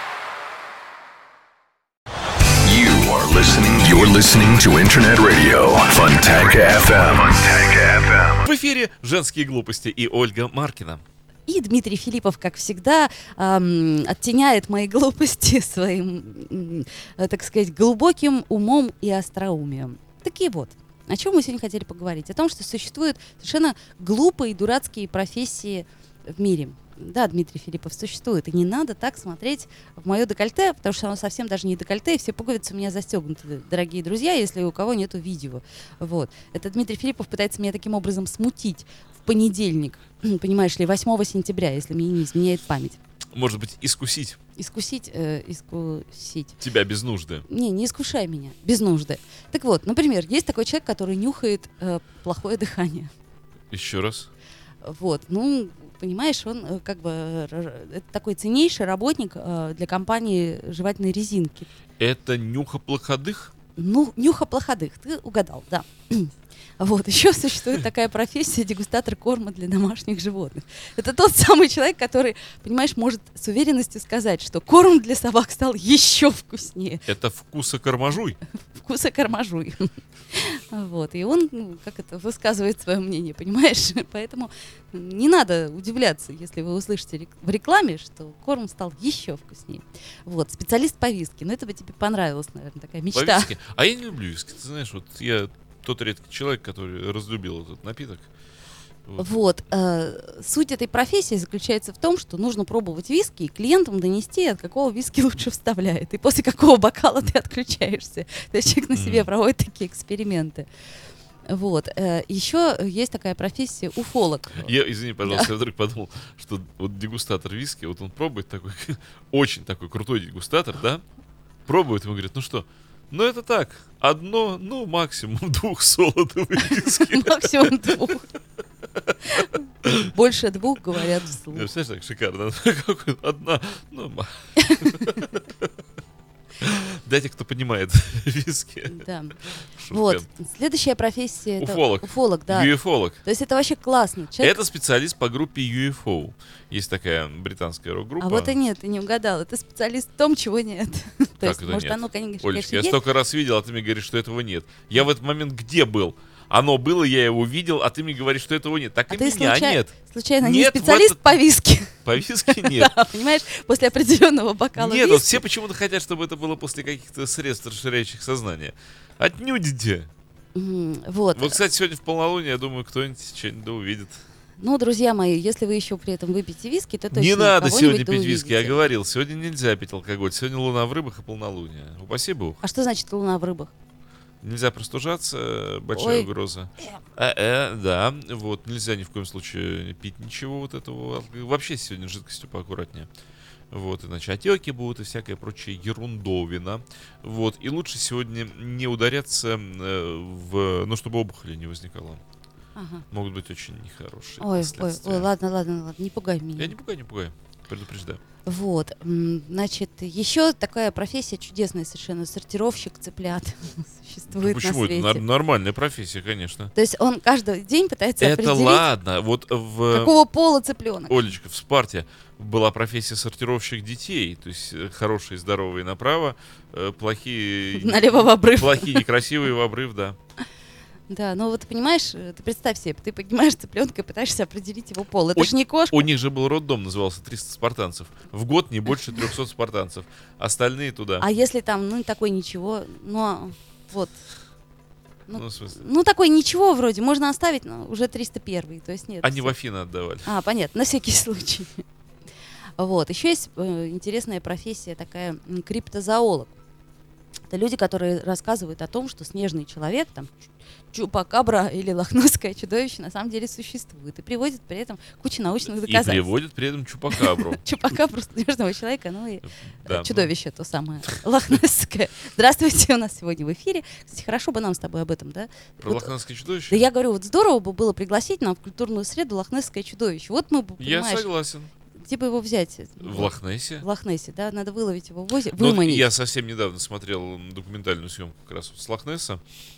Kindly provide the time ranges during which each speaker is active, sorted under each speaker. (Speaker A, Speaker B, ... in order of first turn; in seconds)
Speaker A: 2.6-8.4
Speaker B: 8.4-11.0, 43.3-44.4, 46.6-47.5, 53.7-54.3, 62.0-63.5, 77.1-78.4, 93.1-98.3, 108.9-109.3, 114.6-121.0, 121.7-128.0, 128.9-130.1, 131.5-135.7, 136.6-140.2, 141.6-143.2, 144.4-148.5, 151.4-161.2, 162.0-163.1, 164.8-170.1, 171.3-174.2, 177.1-182.6, 184.4-193.1, 193.7-202.2, 203.1-205.3, 206.6-208.2, 214.3-216.7, 218.2-220.1, 221.1-230.2, 235.3-241.2, 245.3-245.8, 249.2-250.3, 265.8-267.6, 269.4-270.3, 275.8-276.9, 280.8-281.7, 283.0-283.9, 285.5-289.4
Speaker C: 11.5-43.0, 44.5-46.6, 47.5-53.1, 54.8-61.7, 63.7-77.1, 78.7-93.5, 99.2-110.7, 111.5-115.5, 126.7-128.2, 129.2-131.7, 134.6-135.1, 138.9-144.6, 148.2-153.0, 159.1-165.4, 170.5-171.6, 174.6-178.8, 182.6-183.7, 185.9-186.3, 202.7-203.0, 204.4-206.8, 208.4-215.2, 216.7-218.8, 219.9-221.3, 227.7-229.0, 231.1-236.1, 241.2-244.2, 245.3-249.5, 250.2-251.8, 252.8-256.5, 257.5-260.3, 260.9-266.3, 267.1-276.1, 276.7-281.3, 281.9-286.1